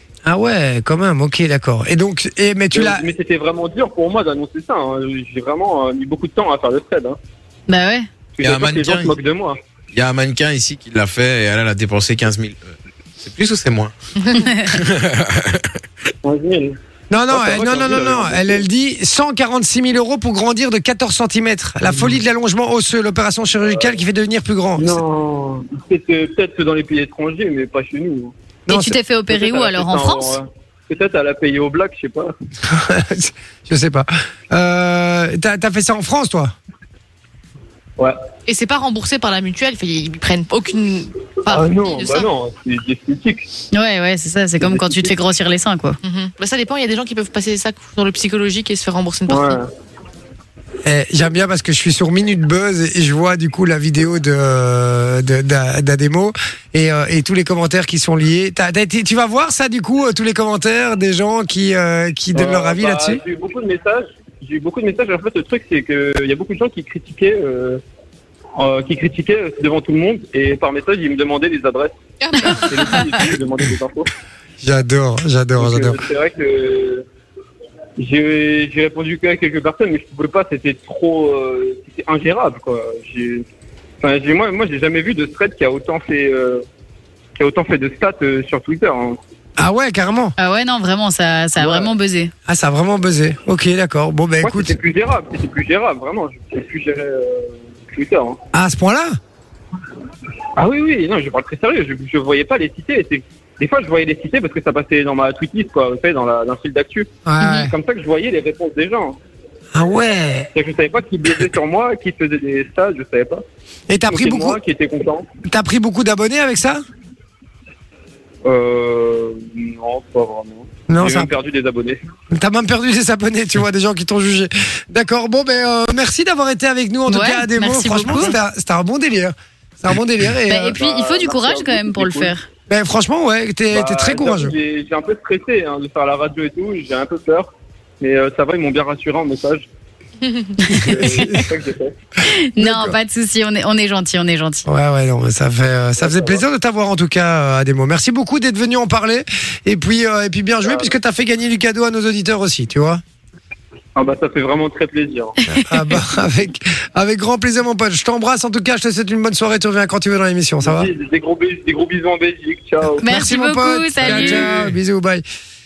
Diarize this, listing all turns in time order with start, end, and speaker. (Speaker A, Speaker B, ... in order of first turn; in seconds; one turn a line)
Speaker A: 0.2-3.0
Speaker B: 2.7-7.2
Speaker C: 7.7-8.1
Speaker B: 8.3-9.6
Speaker D: 8.4-9.1
Speaker D: 9.9-13.9
Speaker E: 14.2-14.5
Speaker C: 14.4-14.7
Speaker D: 14.7-15.7
Speaker B: 16.2-16.8
Speaker A: 17.1-25.0
Speaker B: 17.3-18.6
Speaker B: 23.6-24.0
Speaker B: 24.8-28.3
Speaker A: 28.7-29.0
Speaker C: 28.7-30.4
Speaker B: 29.3-32.3
Speaker A: 32.6-36.5
Speaker E: 38.5-42.3
Speaker B: 41.5-43.5
Speaker C: 43.7-46.0
Speaker B: 44.6-45.1
Speaker E: 46.0-49.6
Speaker B: 49.3-49.7
Speaker A: 50.8-63.2
Speaker B: 62.3-67.8
Speaker B: 68.6-72.0
Speaker E: 72.2-73.1
Speaker B: 72.7-74.1
Speaker A: 74.6-76.0
Speaker B: 75.6-77.0
Speaker B: 78.0-83.4
Speaker B: 84.0-86.6
Speaker B: 87.4-89.2
Speaker A: 89.6-90.3
Speaker C: 90.4-92.3
Speaker B: 91.5-91.9
Speaker A: 92.5-94.8
Speaker B: 94.4-98.4
Speaker A: 98.5-99.2
Speaker B: 100.6-109.2
Speaker A: 107.2-107.7
Speaker A: 109.7-110.5
Speaker B: 110.5-113.4
Speaker A: 113.9-114.6
Speaker B: 114.1-115.3
Speaker A: 115.5-116.8
Speaker B: 118.4-122.0
Speaker A: 120.9-121.3
Speaker A: 122.3-130.8
Speaker C: 127.1-128.4
Speaker C: 130.5-132.5
Speaker B: 130.8-132.3
Speaker A: 132.7-134.5
Speaker B: 133.7-139.7
Speaker C: 140.7-140.9
Speaker A: 140.7-141.4
Speaker B: 140.8-141.9
Speaker C: 142.2-144.7
Speaker A: 142.6-143.0
Speaker A: 144.7-153.0
Speaker B: 146.0-146.4
Speaker B: 150.6-150.9
Speaker B: 153.9-155.3
Speaker C: 155.5-155.8
Speaker A: 155.7-160.9
Speaker B: 160.6-163.0
Speaker A: 163.0-165.2
Speaker C: 163.0-164.5
Speaker B: 164.2-164.7